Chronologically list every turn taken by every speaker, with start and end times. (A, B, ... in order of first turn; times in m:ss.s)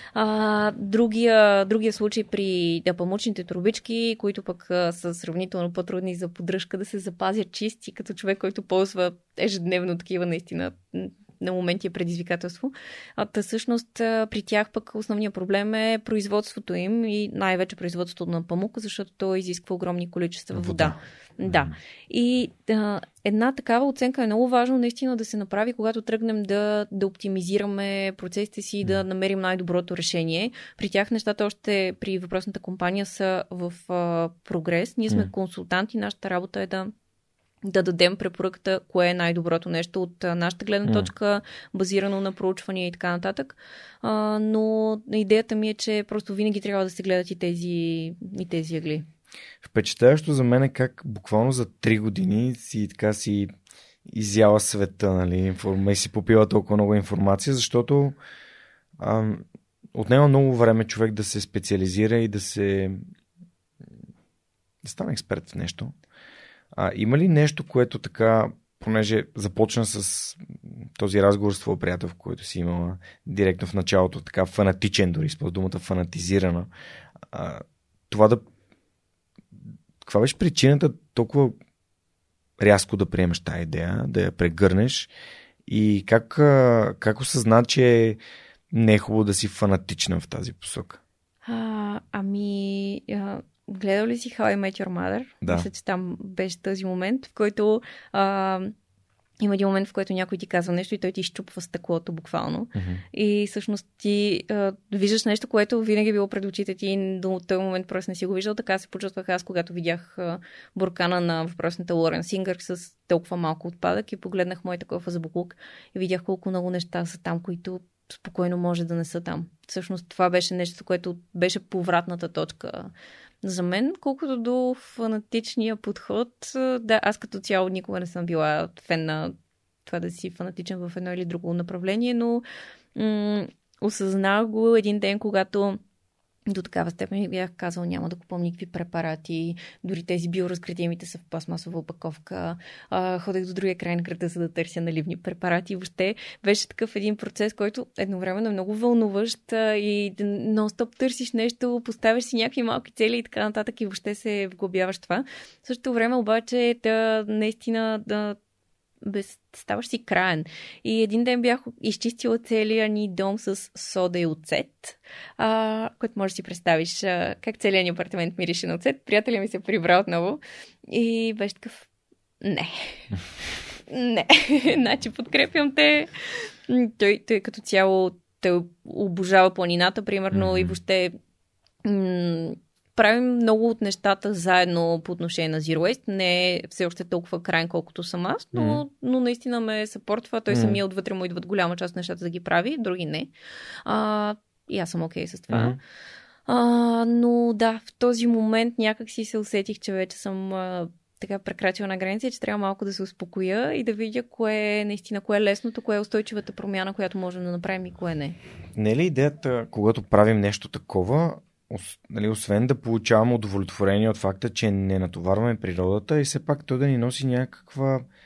0:00.1-0:36.9 A
0:20.5-0:21.7 B
0:37.6-0:49.1 A
0:49.6-0:53.5 B
0:54.0-0:58.2 B
0:59.0-1:03.0 B
1:04.8-1:05.9 B
1:06.7-1:16.7 B
1:17.3-1:18.4 B
1:20.0-1:21.6 B
1:22.6-1:25.1 B
1:25.7-1:28.2 B
1:28.7-1:31.0 B
1:31.4-1:38.7 A
1:35.4-1:35.7 B
1:39.4-2:12.4 A
1:42.7-1:43.0 B
2:12.9-2:15.8 A
2:16.5-2:38.4 A
2:39.0-2:51.9 A
2:52.4-2:53.1 A
2:53.9-3:01.1 A
3:00.3-3:00.7 B
3:01.8-3:13.3 A
3:08.5-3:08.8 B
3:10.5-3:10.8 B
3:13.8-3:15.8 A
3:15.5-3:15.8 B
3:16.5-3:28.4 A
3:28.8-3:38.0 B